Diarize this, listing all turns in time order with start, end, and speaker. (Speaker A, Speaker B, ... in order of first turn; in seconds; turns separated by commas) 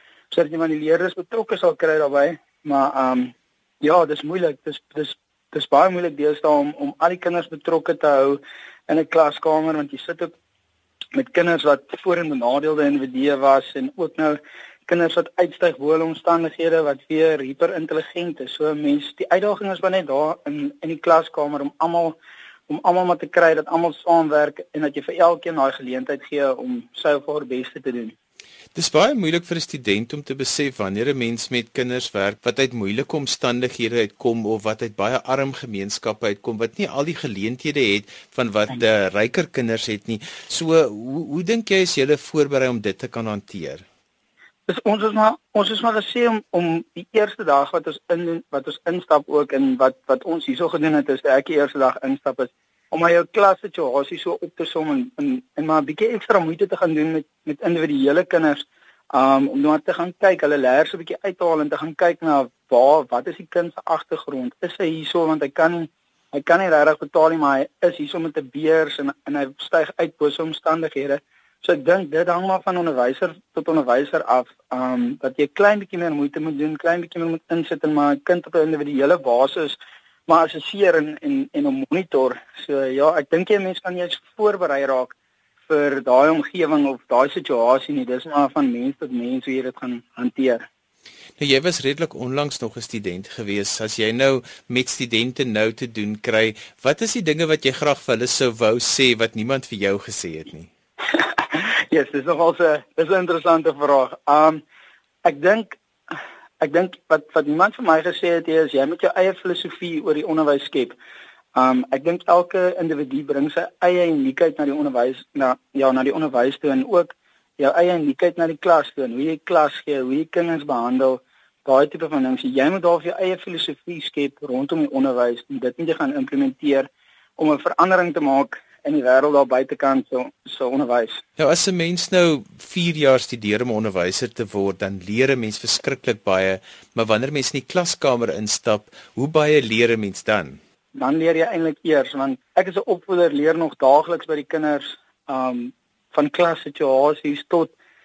Speaker A: 0.3-10.3, Speaker A: 11.1-22.2, Speaker A: 22.7-28.1, Speaker B: 28.8-43.8, Speaker A: 44.7-85.1, Speaker A: 85.7-90.7, Speaker B: 91.4-100.7, Speaker A: 101.2-104.6, Speaker A: 105.2-111.0, Speaker A: 111.5-131.2, Speaker B: 131.4-140.6, Speaker A: 140.9-147.7